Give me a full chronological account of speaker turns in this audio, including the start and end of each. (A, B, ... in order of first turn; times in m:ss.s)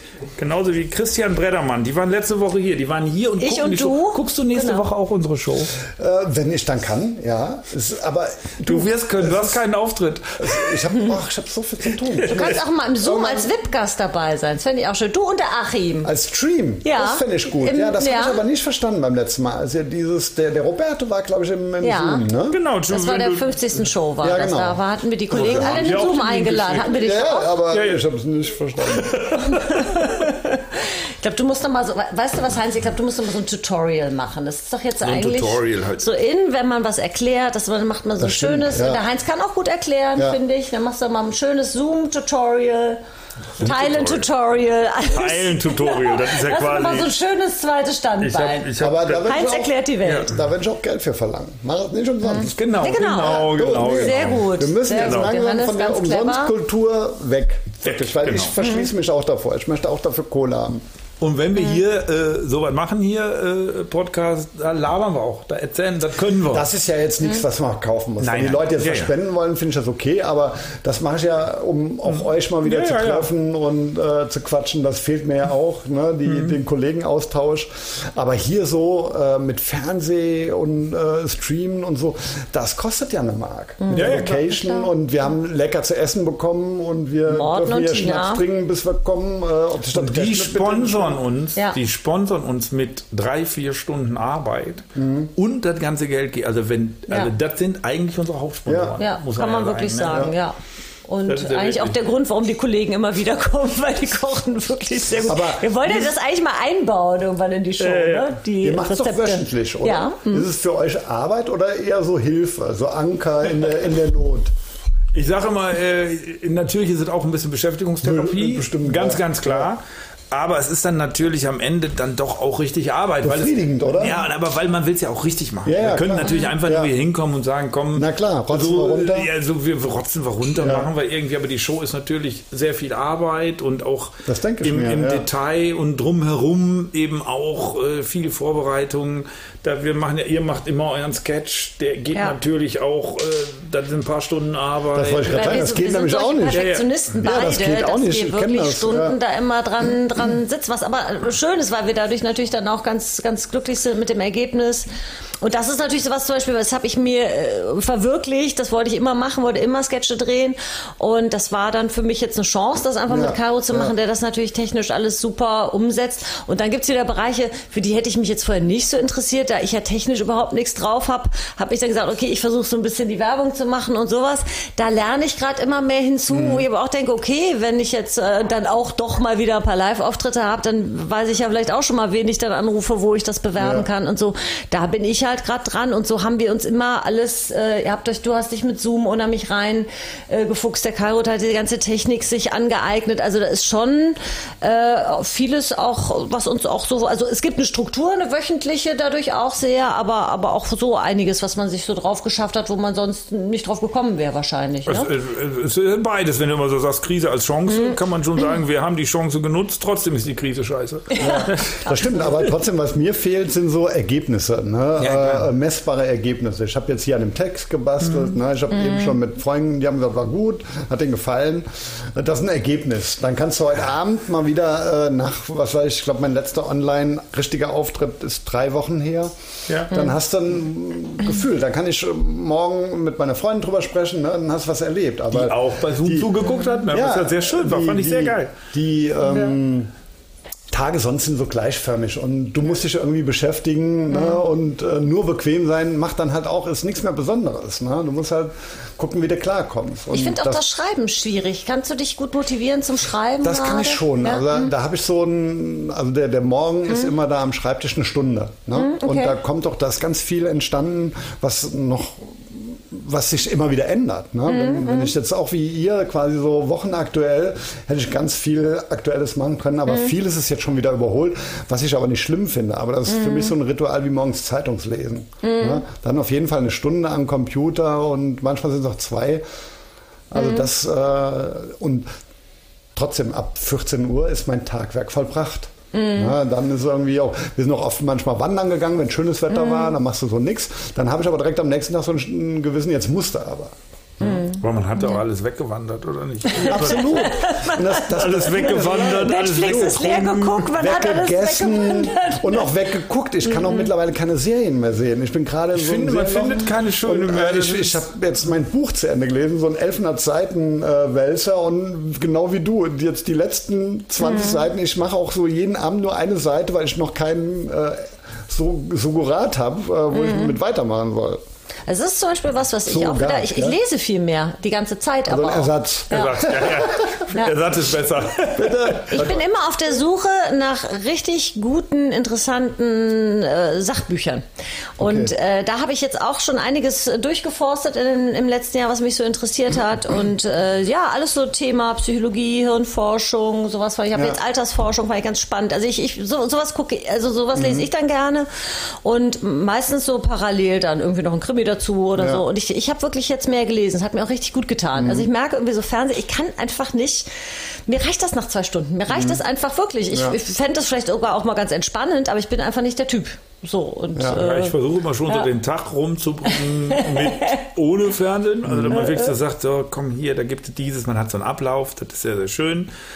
0:00.4-0:05.7 A
0:03.4-0:04.8 B
0:05.9-0:09.6 C
0:08.6-0:10.8 A
0:10.4-0:13.5 C
0:12.2-0:16.1 B
0:16.0-0:22.6 C
0:16.8-0:18.4 B
0:21.8-0:22.2 B
0:22.5-0:23.4 A
0:22.9-0:27.6 B
0:24.2-0:26.0 C
0:25.4-0:27.0 A
0:26.8-0:29.4 C
0:27.7-0:28.0 A
0:28.9-0:30.1 A
0:29.4-0:43.0 B
0:35.0-0:36.1 A
0:38.2-0:39.0 C
0:43.6-0:44.2 A
0:43.6-0:50.3 B
0:45.1-0:47.1 A
0:48.2-0:49.4 A
0:48.8-0:52.5 C
0:50.0-0:50.3 A
0:52.4-0:55.3 A
0:52.8-0:56.5 B
0:53.2-1:00.8 C
0:57.8-0:58.6 A
1:01.2-1:06.6 A
1:06.4-1:31.2 C
1:08.2-1:09.1 A
1:12.1-1:13.3 A
1:16.3-1:16.5 A
1:23.8-1:24.9 B
1:23.9-1:24.3 A
1:27.3-1:28.4 B
1:29.9-1:40.3 A
1:34.9-1:35.3 C
1:38.7-1:39.0 C
1:39.0-1:40.5 B
1:41.1-1:50.5 B
1:41.3-1:42.0 A
1:45.2-1:46.1 C
1:47.8-1:48.3 A
1:48.6-1:54.5 C
1:55.1-2:25.6 A
1:58.0-1:59.7 C
2:03.2-2:04.2 C
2:05.6-2:06.9 C
2:07.9-2:09.3 C
2:10.6-2:10.9 C
2:14.2-2:15.3 C
2:24.9-2:29.2 C
2:25.3-2:34.9 B
2:26.5-2:26.9 A
2:35.4-3:25.1 B
2:43.1-2:43.9 C
2:56.3-2:56.7 C
3:03.6-3:03.9 C
3:24.8-3:31.6 A
3:27.7-3:28.5 B
3:31.1-3:32.5 B
3:31.2-3:49.3 C
3:35.0-3:35.5 A
3:38.7-3:39.2 B
3:49.7-3:49.9 A
3:49.8-3:56.3 C
3:55.3-3:58.5 A
3:56.9-3:59.9 C
4:00.7-4:10.6 C
4:04.1-4:04.4 B
4:10.1-4:14.7 B
4:13.4-4:39.4 C
4:18.8-4:19.3 B
4:24.5-4:25.1 B
4:33.1-4:33.5 B
4:35.4-4:35.8 B
4:40.3-4:42.1 C
4:40.3-4:40.7 B
4:43.0-4:54.4 C
4:45.9-4:46.3 B
4:49.5-4:49.9 B
4:54.2-4:57.3 A
4:56.6-5:21.4 C
4:56.6-5:02.7 B
4:58.0-5:00.6 A
5:03.5-5:03.9 B
5:05.7-5:08.0 A
5:14.2-5:14.7 B
5:20.1-5:20.6 B
5:21.9-5:26.4 B
5:22.8-5:23.8 C
5:25.3-5:27.2 C
5:26.1-5:29.1 A
5:28.6-5:29.4 C
5:29.0-5:34.4 B
5:35.0-5:57.3 B
5:35.0-5:35.3 C
5:47.5-5:47.9 C
5:52.2-5:52.4 C
5:55.0-5:55.3 C
5:57.9-6:05.4 B
5:59.1-5:59.4 C
6:00.1-6:00.4 C
6:04.2-6:04.4 C
6:04.3-6:12.9 A
6:06.5-6:07.6 B
6:08.6-6:09.1 C
6:09.0-6:09.3 B